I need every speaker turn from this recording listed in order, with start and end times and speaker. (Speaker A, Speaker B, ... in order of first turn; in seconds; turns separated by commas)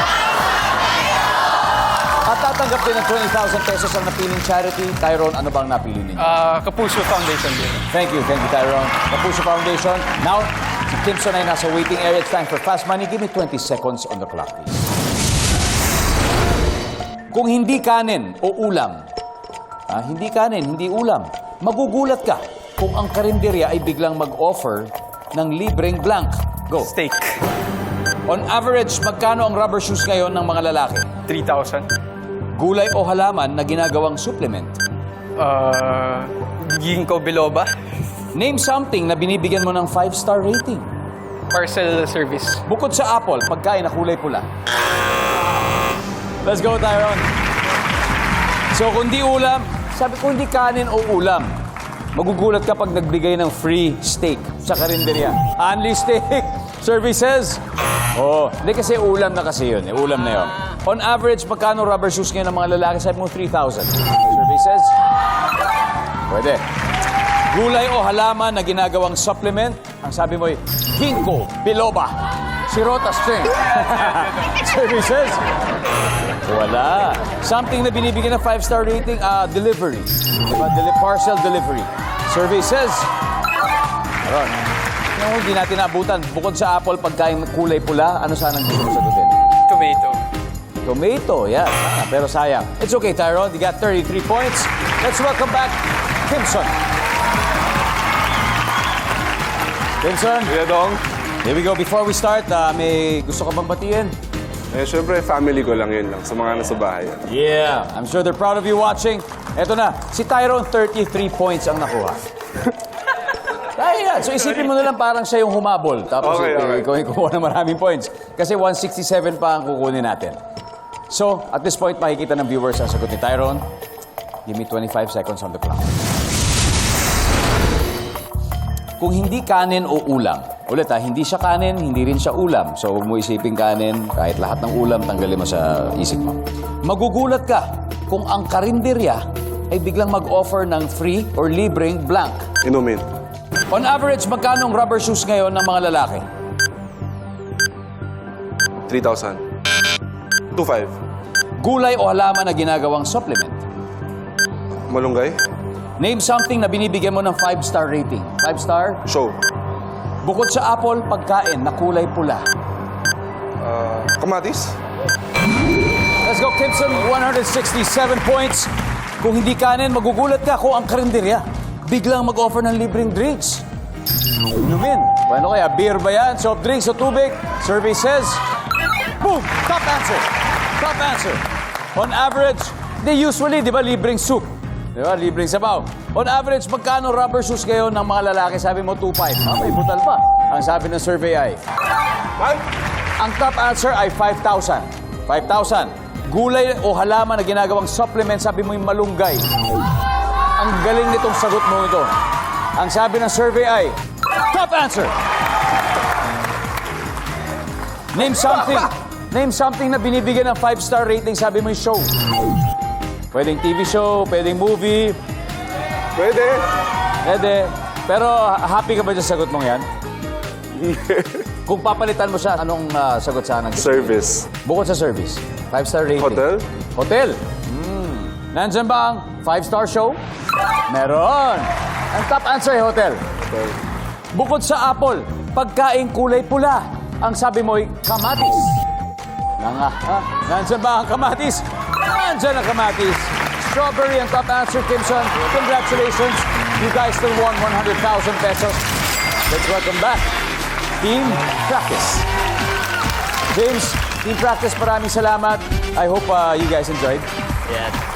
Speaker A: 2.2-6.3, Speaker B: 6.2-7.8, Speaker A: 7.9-14.9, Speaker A: 17.3-19.0, Speaker A: 19.9-26.9, Speaker B: 26.8-27.4, Speaker A: 28.3-31.1, Speaker B: 31.3-31.9, Speaker A: 32.5-34.8, Speaker B: 35.4-37.7, Speaker A: 38.3-40.9, Speaker B: 41.5-42.6, Speaker A: 42.7-44.5, Speaker A: 46.4-47.3, Speaker A: 48.7-51.5, Speaker A: 52.1-57.6, Speaker A: 58.1-65.0, Speaker A: 66.3-66.6, Speaker A: 67.5-72.2, Speaker A: 72.7-75.4, Speaker A: 76.4-83.1, Speaker A: 84.2-84.6, Speaker A: 85.1-89.4, Speaker B: 89.7-90.2, Speaker A: 90.8-96.8, Speaker A: 100.0-100.5, Speaker C: 100.5-101.0, Speaker A: 101.4-104.1, Speaker C: 104.7-107.3, Speaker A: 107.3-112.2, Speaker A: 113.6-120.4, Speaker C: 116.2-116.9, Speaker A: 121.1-123.6, Speaker A: 124.5-126.0, Speaker A: 129.0-142.5, Speaker C: 142.6-143.1, Speaker A: 143.7-146.3, Speaker C: 148.9-149.4, Speaker C: 150.5-151.0, Speaker A: 151.6-153.6, Speaker C: 154.9-155.4, Speaker A: 156.0-159.0, Speaker C: 159.1-159.4, Speaker A: 160.2-162.4, Speaker C: 163.6-164.8, Speaker A: 166.2-173.7, Speaker A: 174.5-178.4, Speaker A: 179.2-181.4, Speaker A: 181.9-191.6, Speaker A: 193.2-199.5, Speaker A: 200.6-202.1, Speaker A: 202.7-205.2, Speaker A: 208.1-212.1, Speaker A: 213.3-215.2, Speaker C: 216.2-216.7, Speaker A: 217.2-219.9, Speaker C: 220.8-221.4, Speaker A: 221.7-230.2, Speaker C: 223.8-224.5, Speaker C: 226.2-226.7, Speaker A: 230.9-233.2, Speaker A: 234.3-238.8, Speaker A: 239.6-248.8, Speaker A: 249.5-250.3, Speaker A: 251.0-252.3, Speaker A: 253.5-257.3